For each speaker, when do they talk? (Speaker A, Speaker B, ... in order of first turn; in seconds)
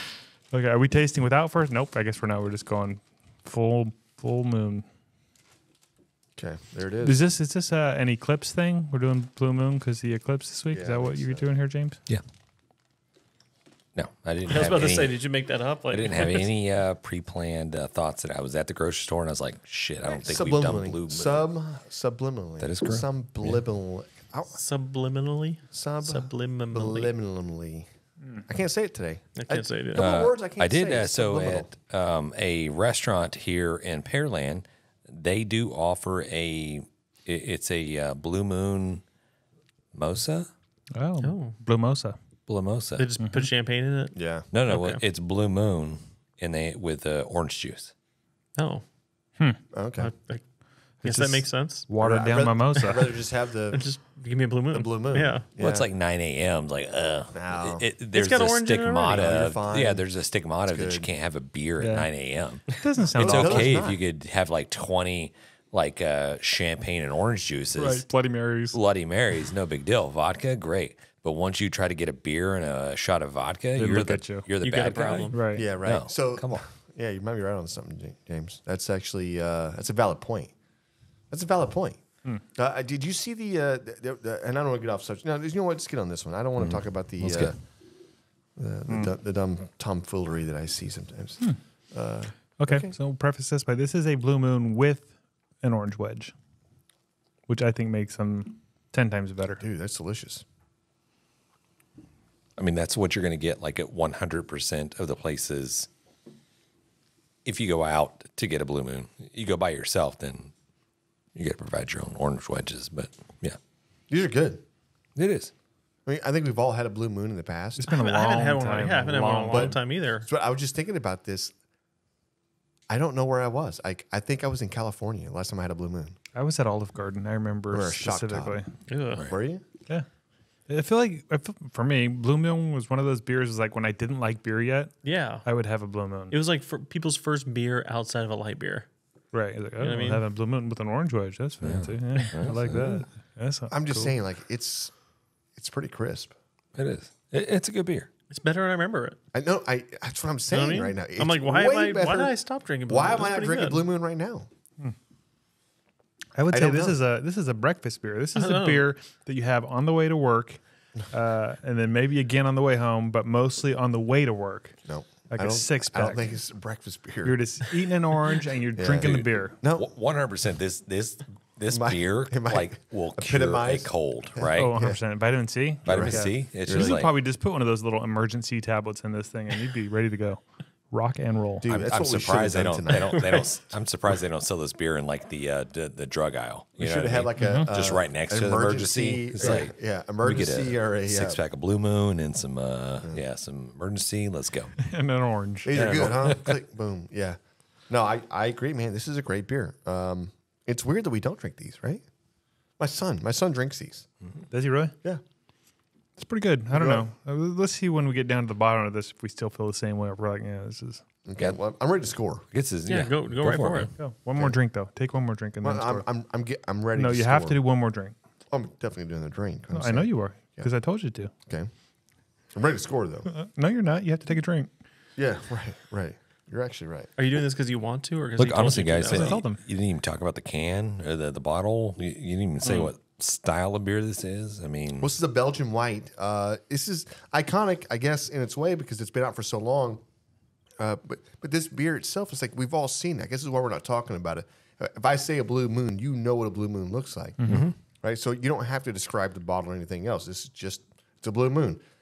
Speaker A: 0.5-4.8, 7.0-12.0, 40.9-42.1, 43.2-43.5, 51.0-53.0, 61.8-62.1, 62.7-63.8, 67.8-68.8, 73.8-74.5, 75.3-75.6, 92.6-96.3, 97.5-99.6, 117.8-119.8, 126.3-128.7, 130.7-136.3, 139.3-144.2, 156.3-164.8, 165.3-166.3, 167.2-169.6, 174.5-181.7, 187.4-187.7, 194.8-196.1, 204.5-204.9, 206.2-211.0, 214.0-216.0, 216.9-218.1, 219.7-221.3, 223.3-224.7, 229.1-229.6, 247.4-247.7
Speaker B: 6.4-7.2, 10.7-11.4, 20.1-24.6, 25.7-27.9, 28.5-31.7, 44.1-44.5, 49.7-50.1, 52.0-53.9, 54.7-55.9, 57.3-57.8, 59.0-60.0, 60.6-61.1, 63.1-64.0, 75.5-80.5, 81.3-87.5, 88.5-92.9, 99.6-100.4, 114.1-114.6, 116.0-117.8, 119.5-121.5, 122.9-126.2, 127.7-128.6, 129.1-129.6, 143.7-144.9, 145.6-146.3, 149.3-152.3, 152.9-154.5, 156.5-157.0, 164.8-167.4, 168.8-169.9, 171.7-175.0, 175.8-177.0, 181.6-183.3, 186.8-191.4, 195.6-202.0, 202.8-204.1, 206.7-207.0, 211.2-212.4, 215.6-217.6, 218.5-220.7, 222.5-223.3, 225.2-227.1, 235.0-240.0, 240.8-247.5, 248.0-251.8
Speaker C: 13.9-15.2, 15.9-21.4, 22.6-23.6, 29.9-39.0, 39.9-40.5, 42.5-43.0, 44.5-47.9, 55.6-68.0, 68.7-76.6, 86.6-87.5, 102.6-105.9, 107.4-110.5, 111.3-113.6, 115.2-115.5, 141.6-143.0, 146.8-148.1, 169.0-174.7, 175.8-177.1, 181.7-194.7, 195.7-196.5, 212.5-213.9, 228.4-235.1, 247.4-247.7
Speaker D: 14.5-16.4, 24.5-27.1, 29.4-30.1, 41.2-41.5, 43.0-44.2, 44.7-45.0, 48.5-48.8, 50.0-50.4, 51.0-51.9, 52.8-53.1, 53.7-55.4, 58.1-59.2, 74.6-75.4, 117.9-120.3, 128.9-129.3, 135.0-135.4, 136.3-138.9, 139.8-140.2, 148.3-149.2, 150.5-153.8, 158.3-158.8, 183.0-183.4, 212.9-213.9, 227.2-229.4